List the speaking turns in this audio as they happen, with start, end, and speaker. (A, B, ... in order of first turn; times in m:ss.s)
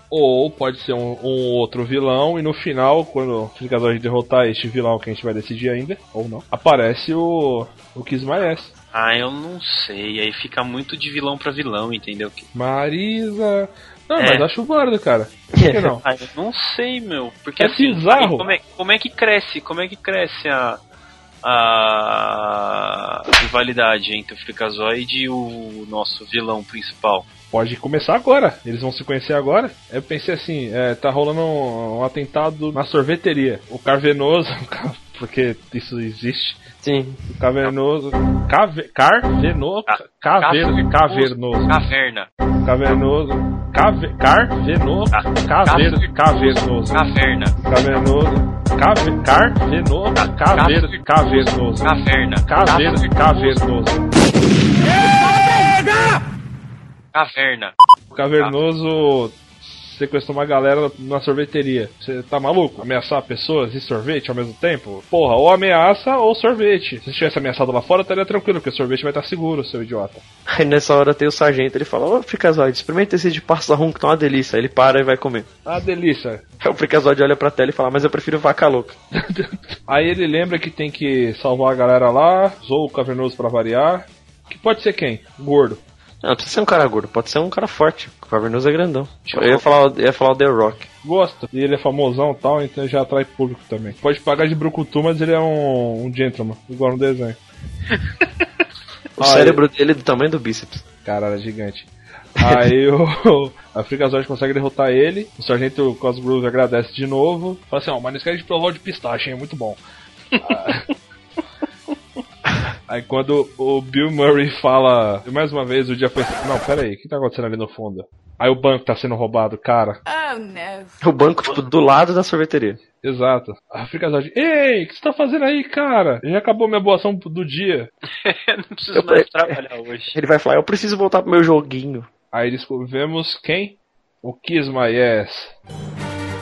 0:00.1-0:08.7 A
0:08.9-0:12.5 B
0:12.5-0:16.0 A
0:14.2-0:14.5 B
0:15.5-0:15.8 C
0:16.0-0:20.8 B
0:17.6-0:18.5 A
0:21.4-0:27.3 B
0:27.5-0:36.6 A
0:36.8-0:37.2 C
0:37.3-0:41.8 A
0:39.9-0:42.3 B
0:42.6-0:54.0 A
0:45.1-0:47.5 B
0:50.2-0:53.6 B
0:57.1-0:57.7 B
0:58.1-1:10.2 A
1:10.5-1:15.5 C
1:15.6-1:16.4 A
1:16.6-1:19.0 C
1:19.2-1:25.8 A
1:26.2-1:30.9 C
1:29.3-1:29.6 B
1:31.0-1:37.4 A
1:39.2-1:40.8 C
1:39.2-1:39.6 A
1:41.0-1:49.8 A
1:50.4-1:50.9 A
1:52.9-2:00.0 A
2:01.0-2:02.8 C
2:03.0-2:07.9 A
2:08.2-2:10.2 B
2:08.9-2:09.6 C
2:10.1-2:12.1 C
2:12.3-2:15.5 A